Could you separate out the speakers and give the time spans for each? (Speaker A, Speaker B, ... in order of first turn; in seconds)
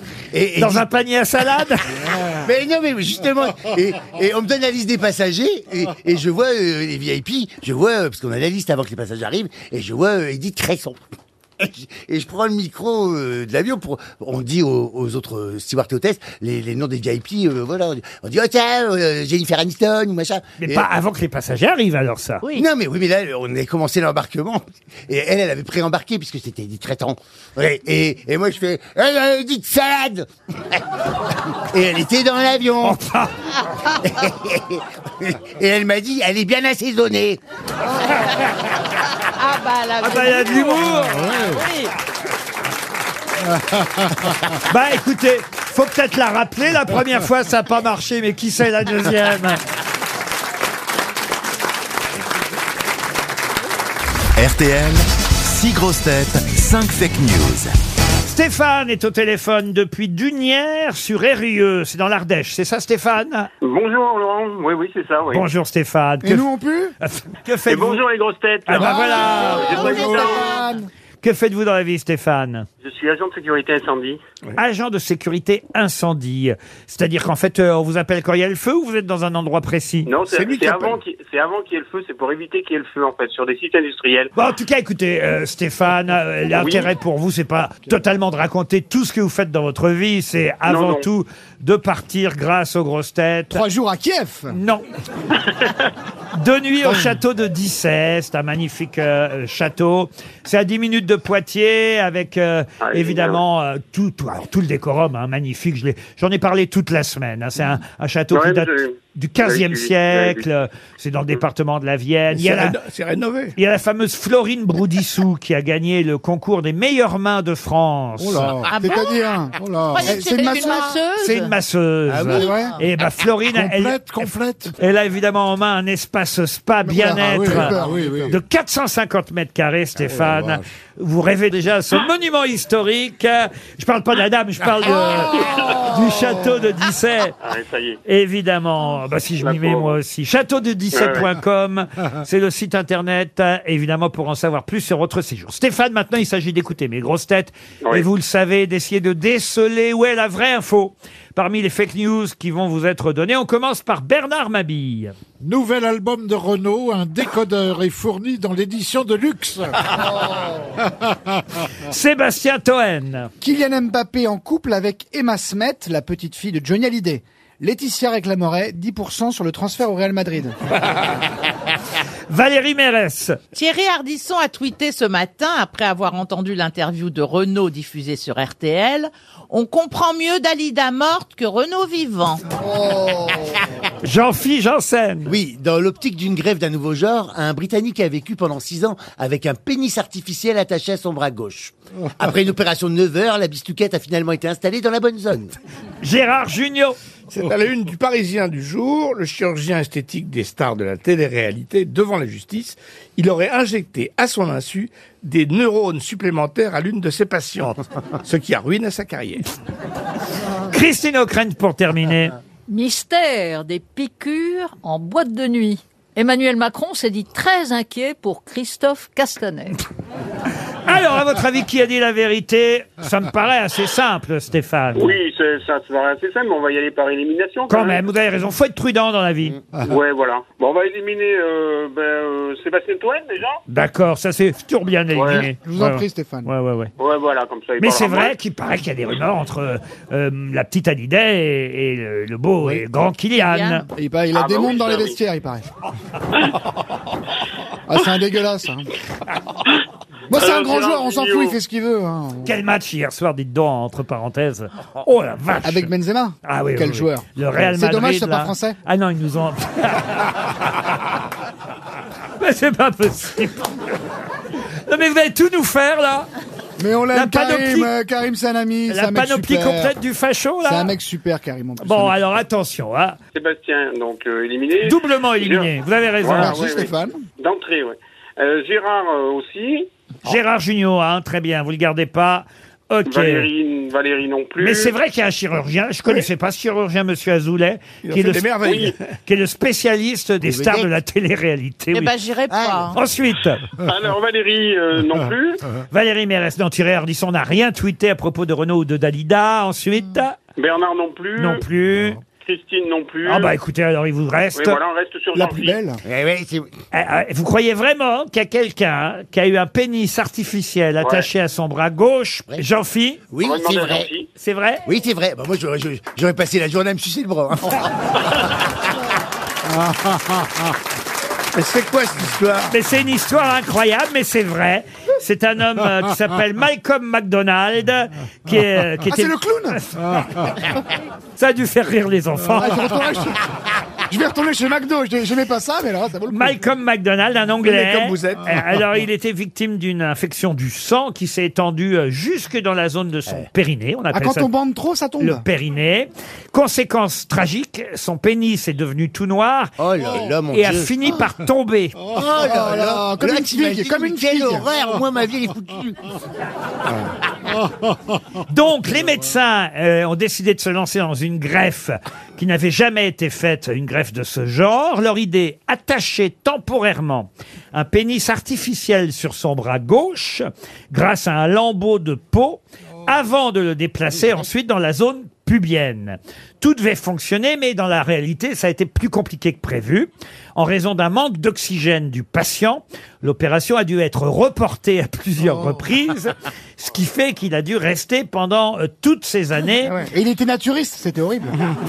Speaker A: 0.3-0.9, 2.2-11.0, 11.6-20.9, 22.5-30.8, 31.5-33.0, 34.0-37.4, 122.1-122.5, 185.2-195.6, 290.4-290.9, 292.5-292.9, 306.0-306.7, 313.3-314.1, 314.8-317.9, 349.8-351.3, 352.1-356.1
Speaker B: 0.6-2.2, 20.6-22.4, 32.8-33.5, 40.0-41.2, 44.6-49.6, 58.2-63.5, 65.3-66.5, 67.0-68.0, 68.7-70.1, 71.2-72.7, 74.6-80.1, 84.3-93.6, 94.5-94.8, 96.3-112.8, 113.5-118.6, 121.2-137.3, 138.0-155.1, 161.9-163.3, 172.3-173.4, 184.0-185.3, 196.0-197.0, 210.7-212.3, 220.8-225.2, 227.7-229.6, 233.7-236.9, 237.8-243.8, 252.4-255.9, 256.4-260.5, 262.4-264.0, 264.9-266.3, 267.1-267.9, 268.9-270.9, 271.8-273.2, 274.8-276.6, 280.2-283.5, 284.6-292.1, 292.9-293.6, 295.9-300.4, 301.4-302.2, 303.2-304.8, 306.9-313.2, 314.4-314.8, 322.7-330.6, 331.4-333.0, 336.3-344.5, 345.2-349.7, 350.5-351.9, 358.5-389.9
Speaker C: 39.4-41.9, 118.7-119.3, 119.9-121.1, 122.3-122.8, 173.5-182.4, 243.5-243.8, 291.9-292.9
Speaker D: 41.0-41.6, 43.5-44.1, 118.2-118.8, 119.6-120.1, 123.5-124.7, 127.2-128.4, 130.0-130.6, 155.4-159.9
Speaker E: 54.4-57.7
Speaker F: 63.6-65.5, 67.7-70.5, 72.8-74.2, 80.0-84.3, 86.5-86.9, 90.6-91.1, 102.8-103.4, 108.3-110.6, 135.3-136.0, 137.4-138.0, 139.4-140.0, 140.9-141.3, 147.8-148.1, 224.9-228.1, 229.8-233.6, 235.1-235.5, 237.0-238.3, 244.3-245.2, 250.3-251.6, 273.3-279.9, 283.1-284.9, 288.6-288.9, 293.8-295.6, 300.6-301.6, 302.4-303.5, 304.5-305.8, 311.0-311.3, 313.4-314.3
Speaker G: 66.2-66.9, 68.8-70.9, 93.5-94.5, 118.8-120.9, 122.3-122.8, 126.8-128.3, 163.4-170.6, 183.0-183.2, 235.6-236.5, 243.9-245.7, 247.9-248.9, 250.3-252.5, 255.6-258.8, 266.8-269.9, 270.6-272.2, 276.3-277.2, 305.3-306.0, 329.1-329.8, 332.5-333.4, 334.1-336.6, 344.1-345.4, 352.4-354.6, 389.9-391.6
Speaker H: 112.3-113.5, 197.3-209.4, 288.0-289.0, 321.5-322.8, 337.6-338.8
Speaker I: 120.2-121.5, 212.7-219.8